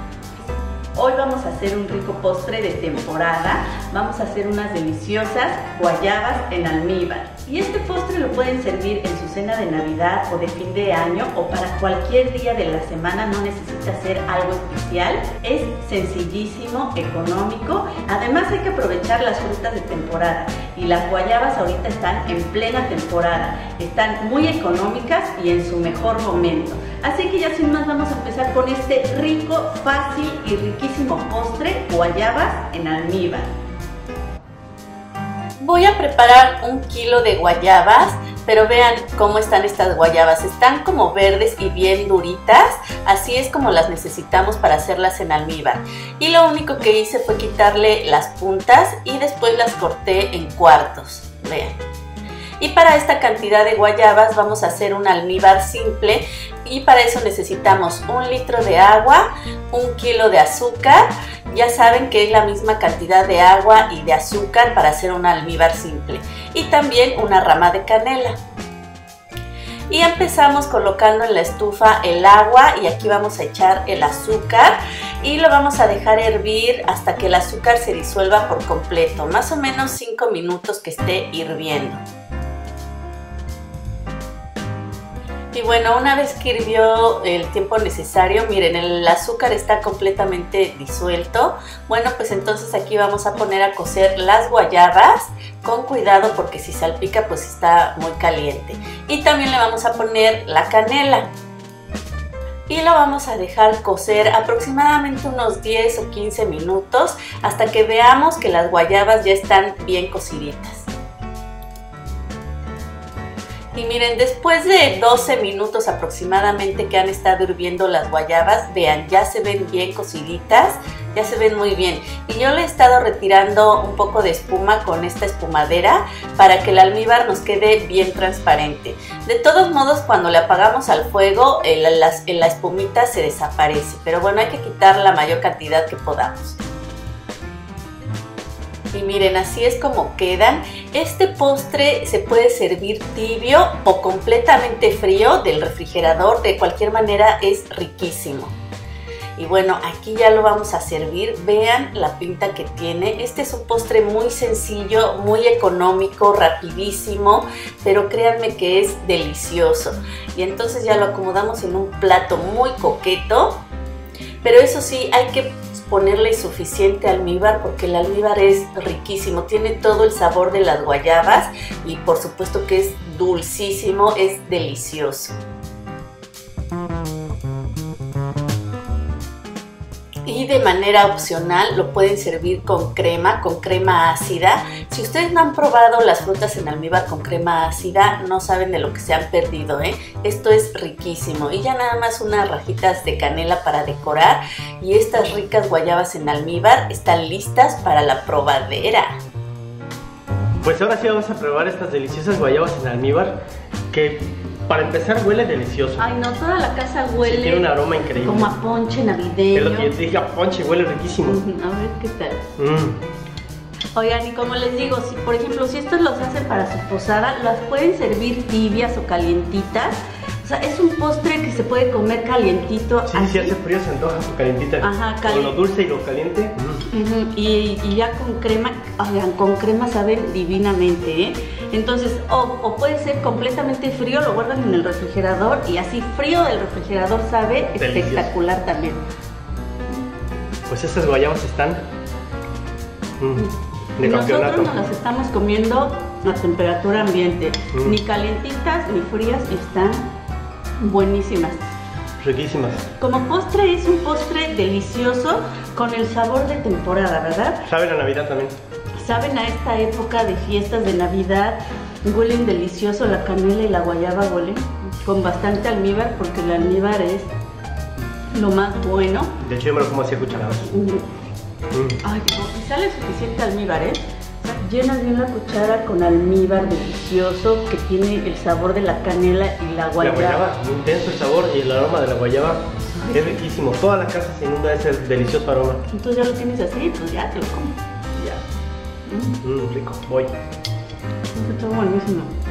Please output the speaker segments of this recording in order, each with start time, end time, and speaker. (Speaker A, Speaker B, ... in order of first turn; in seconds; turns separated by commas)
Speaker A: 0.9-33.5, Speaker A: 35.6-51.8, Speaker A: 52.6-68.4, Speaker A: 69.9-82.0, Speaker A: 85.5-101.3, Speaker A: 102.7-110.9, Speaker A: 113.7-136.6, Speaker A: 138.9-148.5, Speaker A: 149.3-163.6, Speaker A: 164.4-175.3, Speaker A: 180.2-199.2, Speaker B: 200.6-203.4, Speaker B: 203.9-206.1, Speaker A: 206.0-209.9, Speaker B: 207.3-208.5, Speaker B: 209.5-211.4, Speaker A: 211.2-212.4, Speaker B: 212.6-213.0, Speaker A: 213.9-223.5, Speaker B: 223.1-226.8, Speaker A: 224.8-225.6, Speaker A: 226.9-239.0, Speaker B: 237.8-238.3, Speaker B: 240.7-241.8, Speaker B: 243.2-244.7, Speaker A: 244.0-250.0, Speaker A: 250.8-251.6, Speaker B: 252.2-252.9, Speaker A: 253.0-257.6, Speaker B: 257.7-258.5, Speaker A: 259.0-267.3, Speaker A: 268.3-269.3, Speaker B: 269.4-270.7, Speaker A: 270.7-271.0, Speaker B: 271.7-272.0, Speaker A: 272.0-280.4, Speaker B: 280.0-285.8, Speaker A: 282.9-283.4, Speaker A: 285.9-287.8, Speaker A: 289.1-289.4, Speaker B: 289.4-290.3, Speaker A: 291.3-292.3